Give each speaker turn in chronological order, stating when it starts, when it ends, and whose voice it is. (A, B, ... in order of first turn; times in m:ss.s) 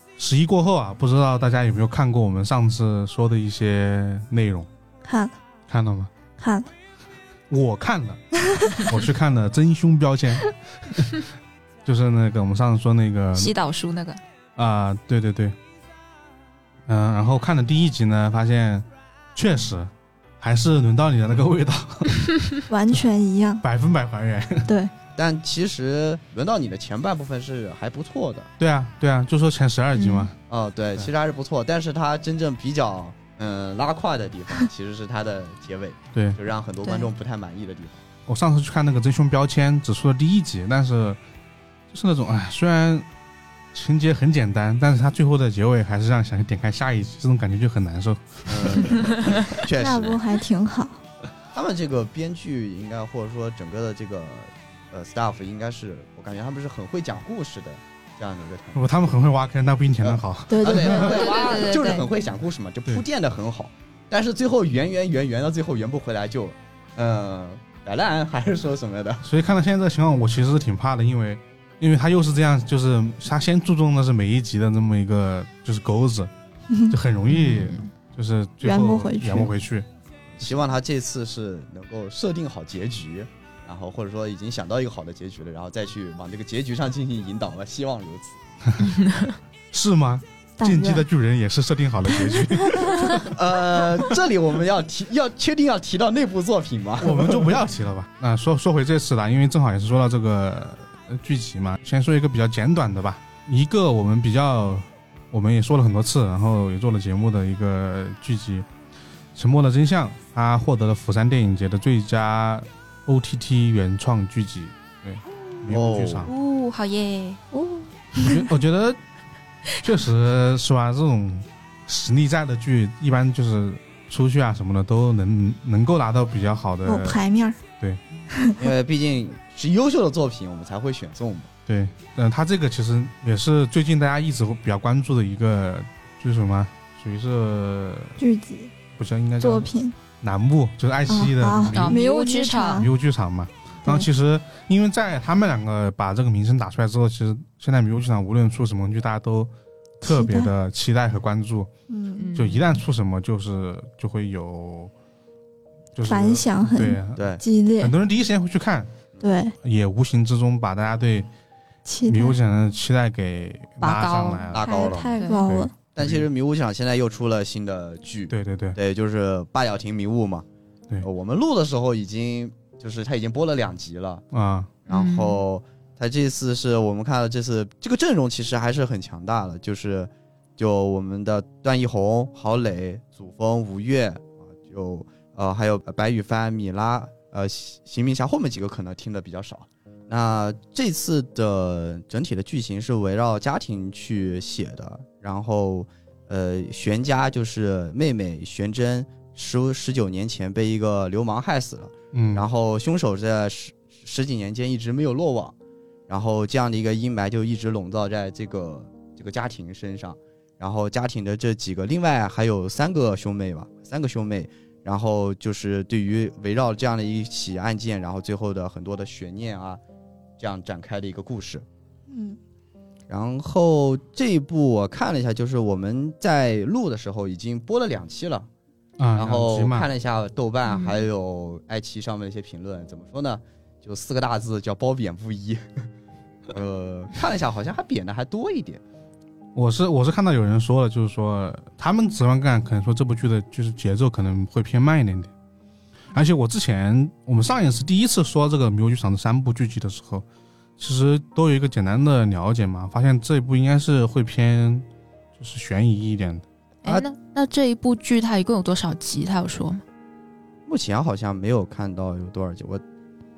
0:00.2-0:04.7 A
0:05.0-0:05.3 B
0:05.7-0:06.1 A
0:06.4-0:06.7 B
0:07.5-0:08.2 A
0:08.8-0:11.1 A
0:11.8-0:13.5 A
0:13.3-0:14.2 C
0:14.6-0:15.6 A
0:16.9-0:22.3 A
0:22.7-0:23.6 B
0:23.6-0:24.7 A
0:25.2-0:28.5 D
0:28.6-0:30.3 A
0:29.9-0:30.3 C
0:30.5-0:38.0 D
0:36.8-0:37.1 C
0:38.3-0:41.2 A
0:41.9-0:43.0 A
0:43.7-0:49.3 A
0:48.5-0:50.2 D
0:49.7-0:51.0 B
0:51.5-0:58.8 D
0:58.7-1:01.1 A
1:00.0-1:09.2 D
1:00.5-1:01.1 B
1:00.8-1:02.1 C
1:09.2-1:16.3 A
1:16.7-1:17.0 B
1:16.9-1:19.9 A
1:17.3-1:17.9 C
1:18.6-1:19.5 B
1:20.3-1:28.4 D
1:28.7-1:28.9 A
1:28.9-1:29.3 C
1:29.7-1:33.3 A
1:30.6-1:31.0 B
1:32.4-1:32.9 B
1:33.1-1:37.5 D
1:37.0-1:48.7 A
1:49.3-1:56.3 A
1:55.7-1:56.3 D
1:56.3-1:57.4 C
1:57.5-1:58.4 B
1:58.2-1:59.0 A
1:59.8-2:07.2 A
2:06.8-2:07.6 B
2:08.3-2:08.6 B
2:08.6-2:11.5 D
2:11.7-2:18.2 A
2:18.2-2:18.7 B
2:19.0-2:19.7 A
2:19.4-2:19.9 B
2:20.2-2:22.1 A
2:21.1-2:22.9 B
2:21.7-2:22.8 C
2:22.7-2:29.5 A
2:30.0-2:30.5 B
2:30.0-2:31.7 A
2:31.9-2:32.3 B
2:32.2-2:32.6 C
2:32.3-2:34.9 A
2:35.9-2:38.9 A
2:36.1-2:37.9 B
2:37.1-2:37.4 D
2:39.2-2:39.5 B
2:39.6-2:41.3 A
2:41.8-2:42.4 B
2:42.1-2:46.2 A
2:43.8-2:44.5 C
2:44.5-2:45.2 D
2:44.5-2:45.7 B
2:45.2-2:45.5 C
2:45.9-2:50.4 D
2:48.3-2:48.8 A
2:51.0-2:54.2 D
2:54.3-2:54.7 A
2:54.9-3:25.5 D
2:54.9-2:55.4 C
3:22.1-3:22.4 A
3:26.1-3:39.8 D
3:40.4-3:41.6 D
3:42.1-3:42.4 B
3:43.1-3:48.5 D
3:49.0-3:49.9 A
3:49.2-3:55.8 D
3:50.7-3:50.9 C
3:56.5-3:58.8 D
3:59.5-4:05.3 A
4:06.1-4:10.2 A
4:10.8-4:14.8 A
4:15.4-4:17.0 A
4:16.8-4:19.8 C
4:20.7-4:22.8 D